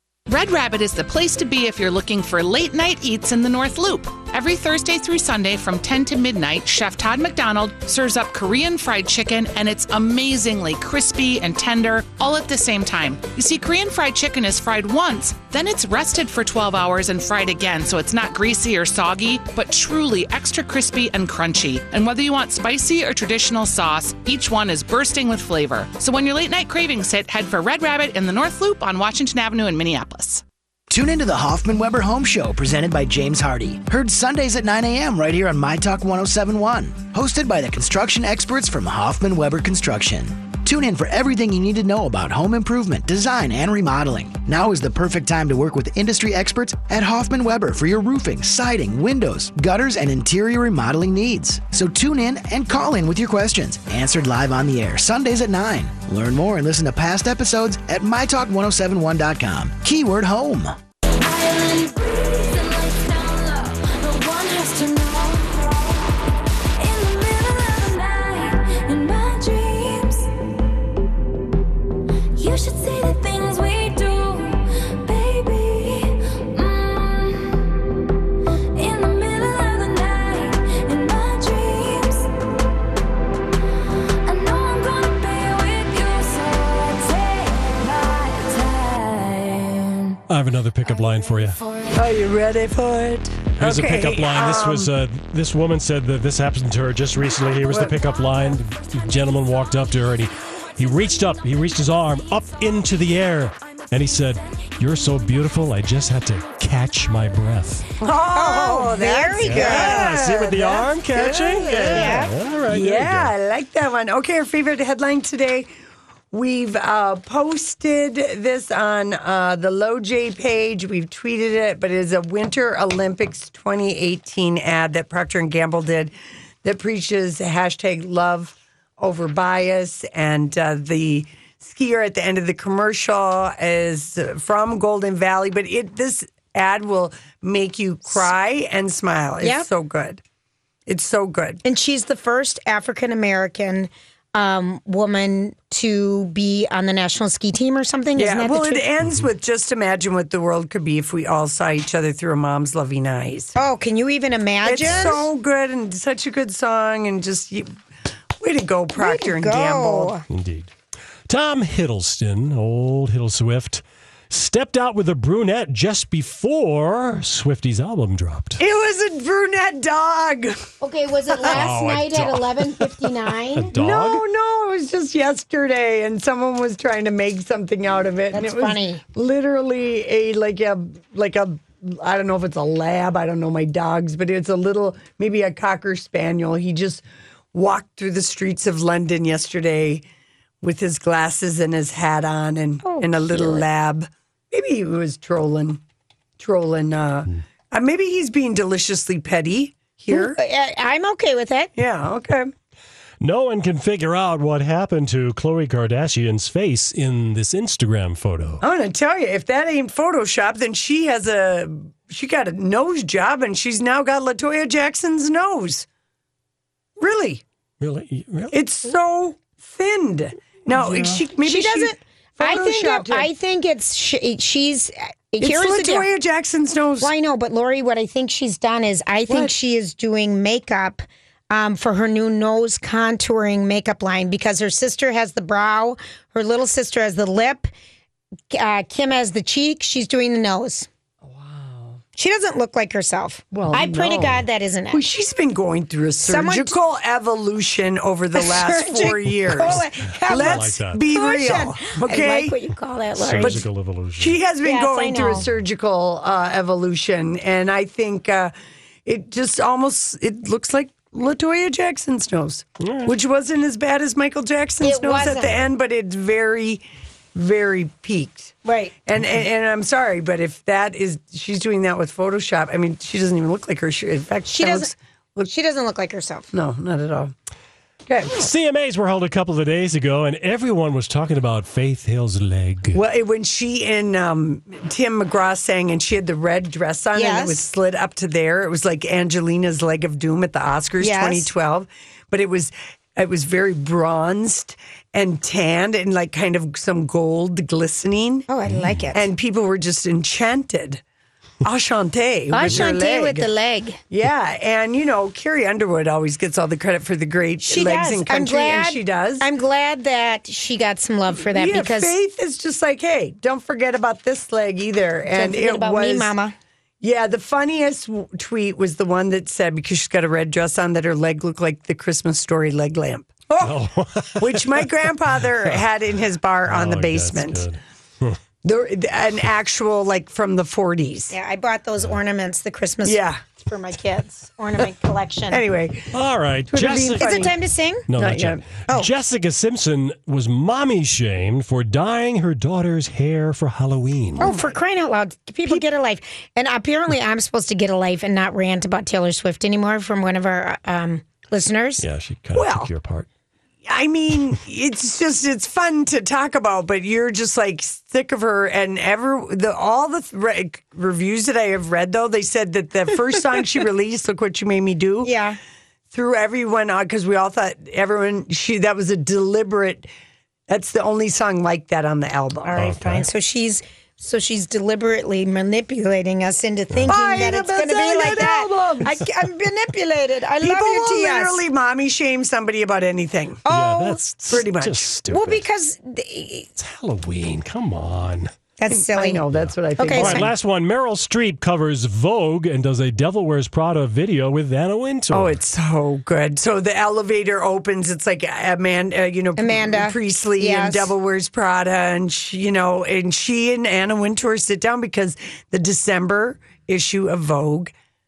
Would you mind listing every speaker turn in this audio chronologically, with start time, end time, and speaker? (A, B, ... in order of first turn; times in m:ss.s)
0:00.3-0:30.4 A
0:30.9-1:00.8 B
1:01.2-1:06.2 C
1:06.8-1:10.3 C
1:12.4-1:17.6 C
1:18.8-1:22.3 C
1:24.2-1:30.2 C
1:30.3-1:31.6 D
1:31.3-1:32.0 C
1:31.9-1:34.9 E
1:33.6-1:47.9 D
1:37.7-1:38.0 E
1:48.0-1:55.7 E
1:48.4-1:50.1 F
1:49.4-1:53.3 D
1:51.8-1:52.3 F
1:56.3-2:06.1 E
2:06.6-2:20.2 E
2:19.4-2:19.7 F
2:20.9-2:21.6 E
2:21.6-2:28.8 F
2:28.2-2:33.6 E
2:33.6-2:35.3 F
2:34.6-2:37.8 E
2:34.8-2:35.1 D
2:38.4-2:40.1 E
2:39.0-2:40.2 F
2:40.3-2:40.7 D
2:41.3-2:48.6 D
2:48.6-2:50.6 E
2:50.8-2:53.7 F
2:51.5-2:52.5 D
2:53.5-2:54.2 D
2:53.7-3:10.0 E
2:58.3-2:59.0 F
3:10.6-3:15.8 E
3:12.8-3:13.7 F
3:16.4-3:20.4 E
3:20.1-3:21.7 F
3:21.8-3:22.5 E
3:23.2-3:28.6 D
3:28.6-3:35.9 E
3:37.0-3:37.4 E
3:37.8-3:38.5 D
3:38.5-3:43.3 E
3:40.8-3:46.1 F
3:45.4-3:47.1 E
3:47.0-3:57.7 F
3:58.5-4:00.9 F
4:01.2-4:02.0 E
4:02.2-4:05.0 F
4:03.5-4:04.4 E
4:04.9-4:12.6 E
4:06.2-4:06.8 F
4:08.4-4:13.6 F
4:09.7-4:11.1 D
4:13.2-4:14.4 D
4:13.3-4:18.5 E
4:14.6-4:15.5 F
4:19.0-4:26.8 E
4:22.8-4:23.1 D
4:24.8-4:25.6 F
4:27.4-4:28.6 E
4:28.6-4:28.9 F
4:29.1-4:35.5 E
4:34.5-4:34.9 F
4:35.5-4:36.5 F
4:36.5-4:37.3 E
4:38.1-4:38.4 E
4:38.3-4:43.0 D
4:42.9-4:58.5 E
4:47.2-4:47.7 F
4:51.0-4:51.5 F
4:58.5-4:59.2 F
4:59.1-5:01.0 E
5:01.6-5:03.5 E
5:02.5-5:04.0 F
5:04.1-5:09.5 E
5:07.6-5:12.1 F
5:11.4-5:16.3 E
5:15.3-5:16.6 F
5:17.0-5:23.8 E
5:23.6-5:24.9 D
5:24.4-5:27.7 E
5:26.7-5:28.4 D
5:28.6-5:31.3 E
5:31.3-5:35.6 F
5:33.0-5:33.5 E
5:35.5-5:36.1 E
5:36.1-5:37.5 D
5:36.7-5:37.5 E
5:37.2-5:38.1 F
5:38.1-5:44.5 D
5:38.2-5:38.6 E
5:44.4-5:44.7 E
5:44.4-5:52.1 F
5:52.0-5:53.3 D
5:52.5-5:52.9 E
5:53.9-6:05.3 E
6:05.2-6:05.6 F
6:06.1-6:10.1 E
6:10.7-6:13.0 E
6:12.7-6:21.6 F
6:12.8-6:13.3 D
6:16.9-6:17.2 D
6:17.1-6:19.1 E
6:20.6-6:23.6 E
6:23.7-6:24.2 F
6:23.7-6:25.6 D
6:24.5-6:25.2 E
6:25.3-6:26.7 F
6:26.8-6:28.5 D
6:28.8-6:29.4 F
6:28.9-6:30.5 E
6:29.5-6:35.6 D
6:30.0-6:30.5 F
6:35.3-6:47.9 E
6:39.6-6:41.1 F